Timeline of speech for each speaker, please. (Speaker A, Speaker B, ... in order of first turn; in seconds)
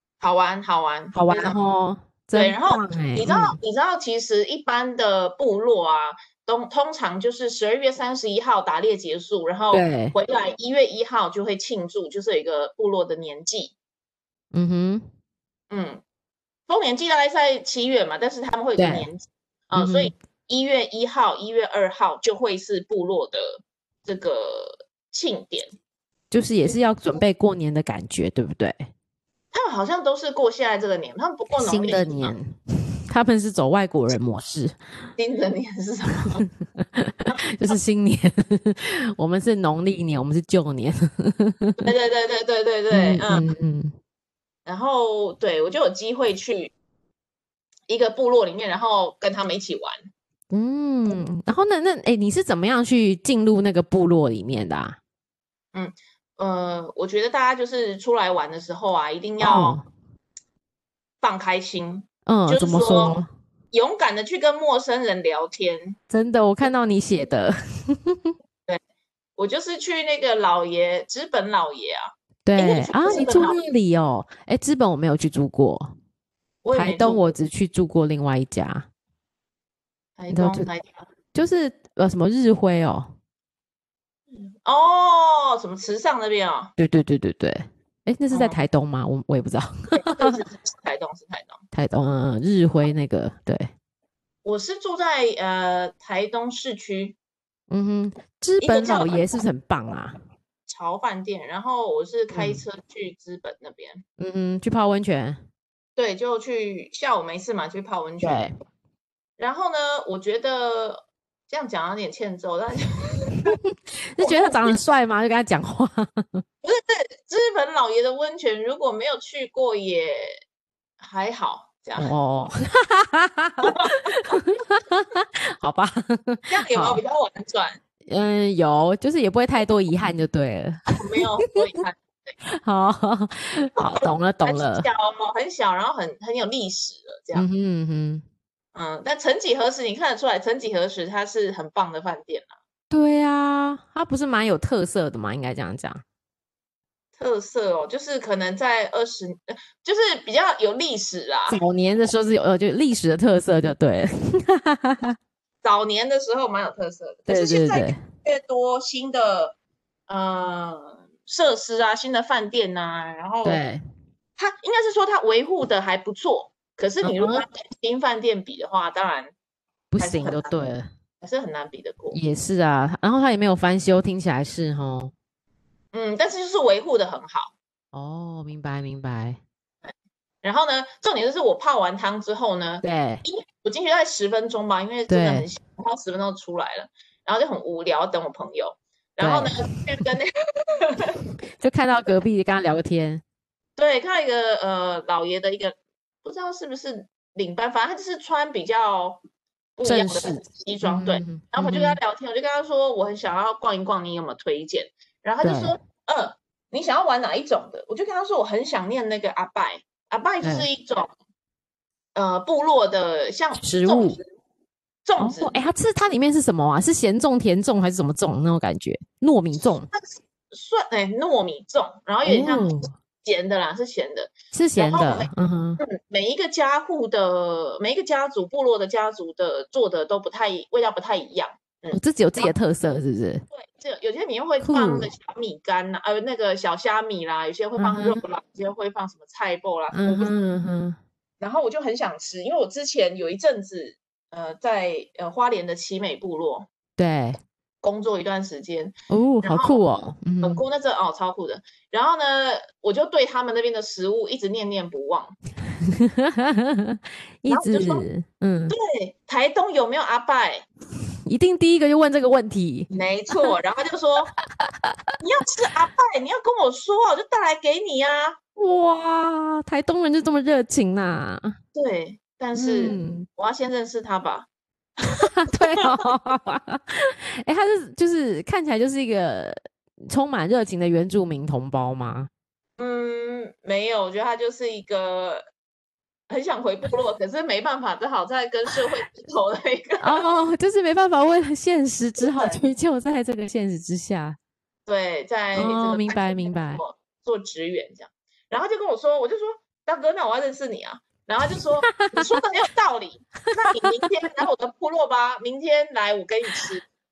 Speaker A: 0.2-1.6, 2.3-13.7, 15.7-16.0, 16.7-25.7, 29.5-32.4, 35.2-36.4, 41.8-43.5, 44.6-46.7, 47.9-50.1, 55.7-59.8, 61.2-63.2, 63.7-66.0, 69.4-73.6, 76.6-77.3, 80.2-81.1, 84.3-86.7, 88.3-88.6, 89.9-91.6, 94.4-97.2, 98.6-99.4, 100.7-104.0, 106.0-108.4, 109.4-113.6, 114.2-114.8, 116.6-120.4, 121.0-122.1, 123.6-124.4, 126.5-127.8, 130.9-132.3, 133.8-137.5, 138.7-142.5, 147.2-151.6, 155.6-159.6, 160.1-163.6, 164.4-169.3, 170.0-170.5, 171.2-172.2, 175.9-177.5, 180.4-191.2, 193.8-199.2, 199.8-211.1, 212.1-214.2, 215.0-215.6, 219.9-232.5, 233.5-240.4, 241.4-246.7, 247.8-249.8, 250.4-255.3, 257.5-258.0, 258.7-260.6, 262.9-264.3, 265.2-268.4, 271.7-274.5, 275.0-276.0, 282.8-285.5, 286.3-290.2, 292.2-292.6, 294.9-306.8
Speaker B: 1.1-3.6, 9.7-10.1, 14.5-15.1, 18.8-19.1, 19.7-20.1, 26.3-28.9, 31.6-34.8, 36.4-41.9, 42.9-43.9, 50.5-55.0, 59.4-59.8, 62.3-63.3, 66.1-68.3, 72.4-75.9, 76.7-78.8, 80.3-80.7, 81.3-83.1, 86.8-90.4, 91.7-93.7, 97.7-100.2, 102.3-102.6, 104.2-105.4, 108.2-108.5, 114.1-116.4, 122.0-127.0, 128.1-130.8, 132.5-134.9, 137.3-138.2, 142.9-146.0, 151.5-155.2, 157.3-158.0, 163.4-163.8, 167.0-167.4, 169.9-170.9, 172.1-175.1, 177.9-179.4, 182.8-183.2, 185.1-185.5, 189.2-189.6, 191.6-193.2, 199.8-202.0, 205.4-205.7, 210.4-210.7, 213.6-214.2, 215.2-219.9, 222.2-222.9, 224.5-225.8, 231.9-233.4, 234.6-235.1, 237.8-238.2, 239.9-241.0, 247.0-247.4, 249.1-250.6, 255.8-258.7, 261.2-262.9, 264.6-264.9, 268.6-271.5, 272.6-273.3, 275.2-282.3, 290.0-294.4, 295.5-296.8, 301.9-302.3